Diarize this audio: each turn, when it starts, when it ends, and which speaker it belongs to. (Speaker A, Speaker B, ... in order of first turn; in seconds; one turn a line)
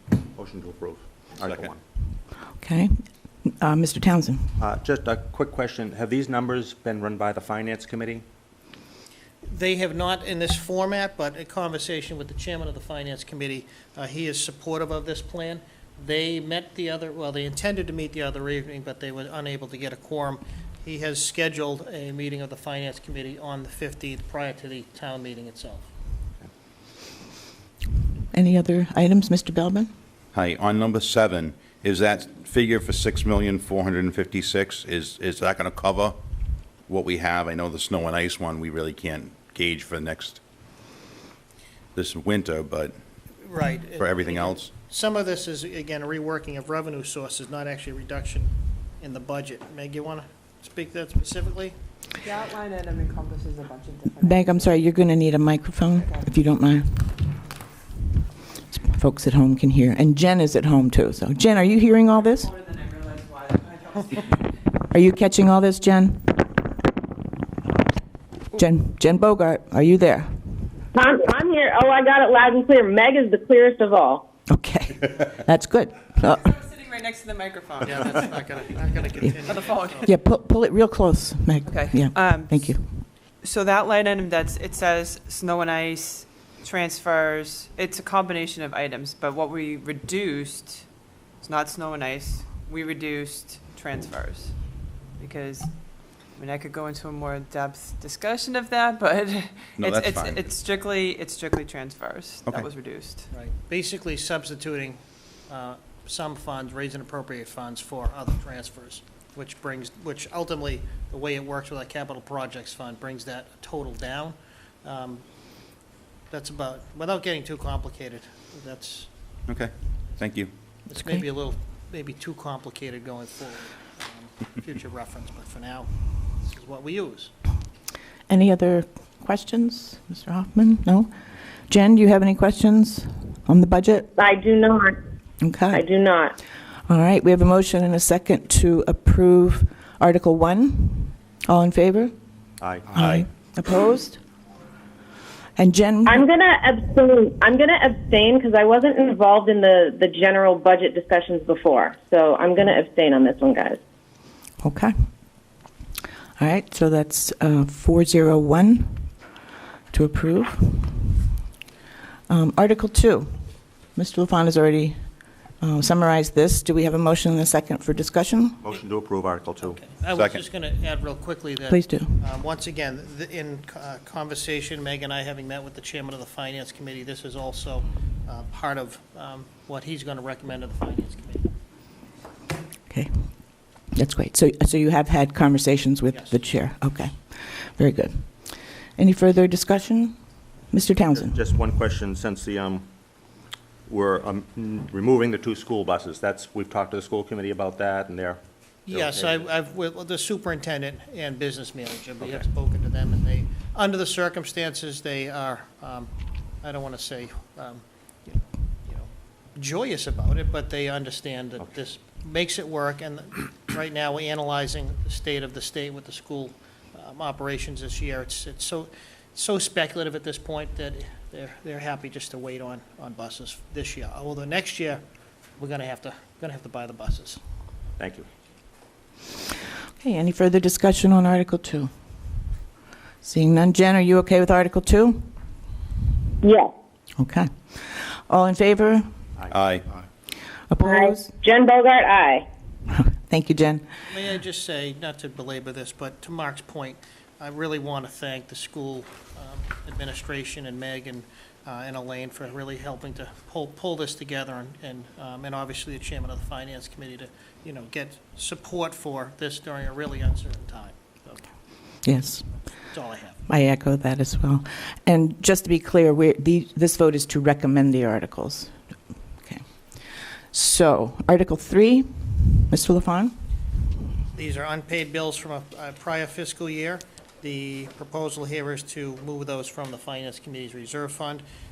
Speaker A: 0.3-1.8
Speaker B: 2.6-4.5
Speaker A: 4.6-8.2
Speaker C: 9.4-25.9
Speaker B: 28.3-29.9
Speaker D: 30.3-36.2
Speaker D: 36.9-40.4
Speaker D: 41.9-42.9
Speaker C: 43.5-51.7
Speaker D: 44.0-44.7
Speaker E: 52.2-54.8
Speaker B: 54.2-57.2
Speaker E: 56.0-56.2
Speaker B: 58.7-62.5
Speaker E: 62.2-64.6
Speaker B: 64.9-66.4
Speaker B: 68.5-70.3
Speaker F: 70.9-74.2
Speaker B: 74.5-76.6
Speaker E: 76.3-80.1
Speaker C: 77.8-80.1
Speaker B: 80.0-82.9
Speaker E: 81.7-103.3
Speaker D: 99.8-100.5
Speaker C: 103.3-115.2
Speaker C: 116.3-119.1
Speaker D: 119.5-120.5
Speaker C: 120.8-127.3
Speaker B: 128.3-131.1
Speaker B: 131.7-134.1
Speaker F: 134.2-134.9
Speaker B: 135.4-135.8
Speaker F: 135.7-136.4
Speaker B: 136.9-142.1
Speaker A: 142.6-142.9
Speaker B: 142.9-144.2
Speaker D: 142.9-143.2
Speaker B: 145.6-146.2
Speaker F: 146.1-153.8
Speaker B: 154.6-154.9
Speaker B: 156.4-159.1
Speaker B: 159.9-161.2
Speaker B: 162.3-168.6
Speaker A: 168.6-169.8
Speaker C: 169.6-181.5
Speaker D: 170.1-170.4
Speaker B: 171.7-172.2
Speaker B: 183.8-190.2
Speaker B: 190.7-191.4
Speaker A: 191.1-192.9
Speaker A: 193.8-199.4
Speaker C: 198.9-206.1
Speaker C: 206.6-225.0
Speaker C: 225.6-227.4
Speaker A: 228.0-228.3
Speaker B: 230.0-231.9
Speaker B: 233.2-235.3
Speaker F: 236.4-236.7
Speaker B: 237.2-239.1
Speaker A: 239.4-240.0
Speaker D: 239.5-239.8
Speaker B: 240.7-241.3
Speaker F: 240.8-242.4
Speaker B: 242.9-243.8
Speaker C: 244.1-261.5
Speaker B: 262.0-262.5
Speaker C: 262.9-263.4
Speaker B: 263.5-268.8
Speaker B: 269.4-273.3
Speaker C: 274.3-281.4